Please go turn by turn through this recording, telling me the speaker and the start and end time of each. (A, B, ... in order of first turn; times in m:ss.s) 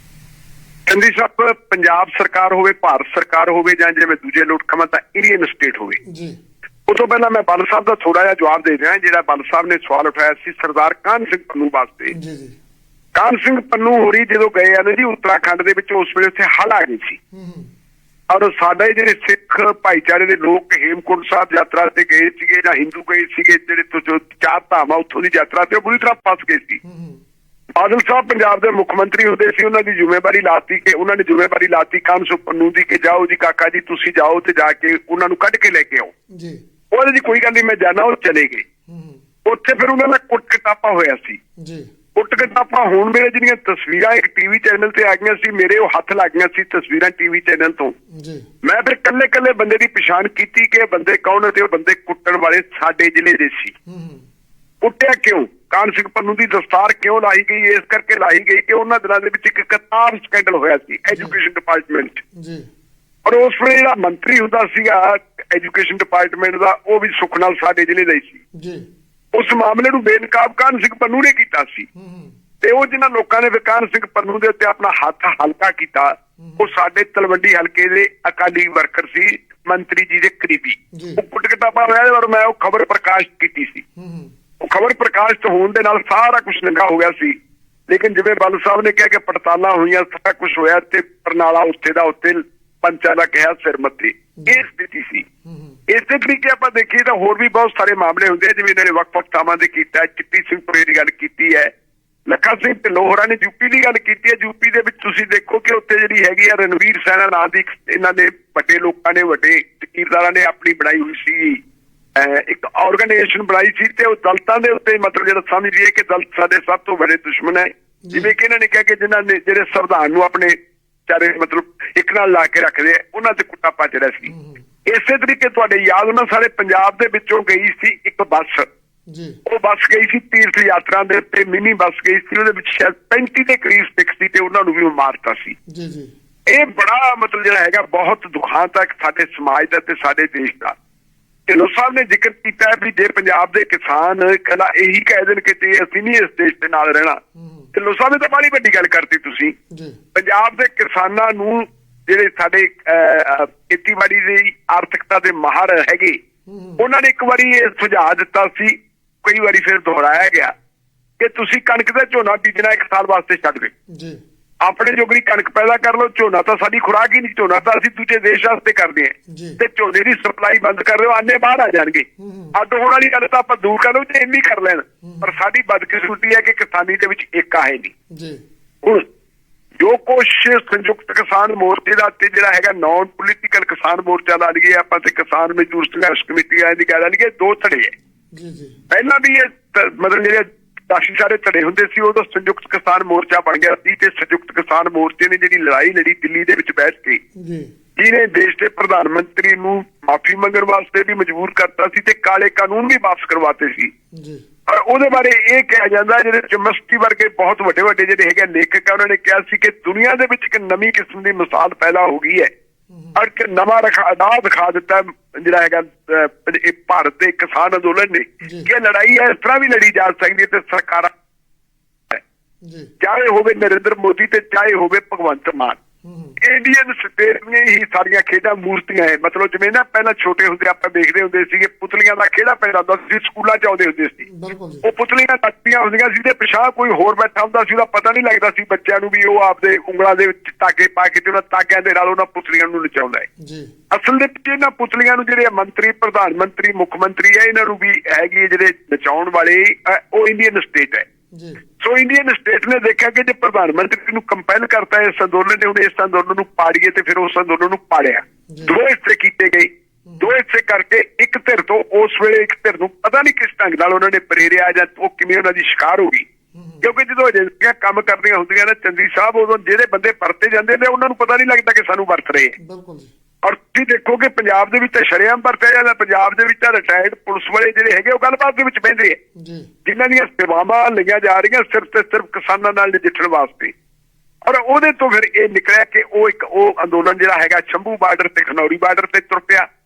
0:00.9-0:06.0 A
0:06.0-0:06.4 B
0:06.9-0:12.1 A
0:12.1-0:12.5 B
0:13.1-0:17.2 A
0:17.3-0:17.7 B
0:18.3-0:26.8 A
0:26.8-0:27.2 B
0:27.8-0:36.1 A
0:36.3-0:36.6 B
0:36.9-0:38.6 A
0:38.9-0:39.2 B
0:39.4-0:41.4 A
0:41.6-0:41.8 B
0:42.1-0:47.9 A
0:48.1-0:48.4 B
0:48.6-0:53.7 A
0:53.9-0:54.2 B
0:54.8-1:02.2 A
1:01.1-1:01.4 B
1:02.3-1:02.6 B
1:03.2-1:08.4 A
1:08.5-1:08.8 B
1:09.3-1:11.8 A
1:12.0-1:12.3 B
1:12.6-1:23.8 A
1:16.4-1:16.6 B
1:20.9-1:21.2 B
1:24.0-1:24.3 B
1:24.6-1:27.4 A
1:27.9-1:35.2 A
1:35.4-1:35.7 B
1:35.9-1:41.7 A
1:42.3-1:51.6 A
1:52.2-2:00.5 A
1:58.0-1:58.3 B
2:01.1-2:04.3 A
2:04.3-2:04.6 B
2:04.9-2:08.7 A
2:09.1-2:09.4 B
2:09.4-2:15.5 A
2:15.7-2:16.1 B
2:16.5-2:20.8 A
2:21.5-2:27.2 A
2:27.4-2:27.7 B
2:27.7-2:29.5 A
2:29.7-2:30.0 B
2:30.1-2:36.2 A
2:36.5-2:36.8 B
2:36.8-2:40.5 A
2:41.2-2:43.7 A
2:43.9-2:44.2 B
2:44.6-2:57.9 A
2:49.3-2:49.6 B
2:52.2-2:52.5 B
2:58.1-2:58.4 B
2:59.8-3:07.9 A
3:08.3-3:08.7 B
3:08.9-3:17.2 A
3:17.4-3:17.7 B
3:18.0-3:23.9 A
3:24.1-3:24.4 B
3:24.7-3:32.5 A
3:32.9-3:33.2 B
3:33.1-3:41.1 A
3:38.4-3:38.7 B
3:42.6-3:42.9 B
3:43.0-3:45.8 A
3:46.0-3:46.4 B
3:46.4-3:54.2 A
3:54.2-3:54.8 B
3:54.8-4:03.3 A
4:03.4-4:03.7 B
4:03.9-4:11.0 A
4:11.3-4:11.6 B
4:11.8-4:19.7 A
4:18.5-4:18.7 B
4:20.2-4:26.2 A
4:26.5-4:26.9 B
4:26.8-4:32.5 A
4:32.6-4:33.1 B
4:33.4-4:39.2 A
4:39.4-4:39.7 B
4:39.8-4:43.7 A
4:44.4-4:49.7 A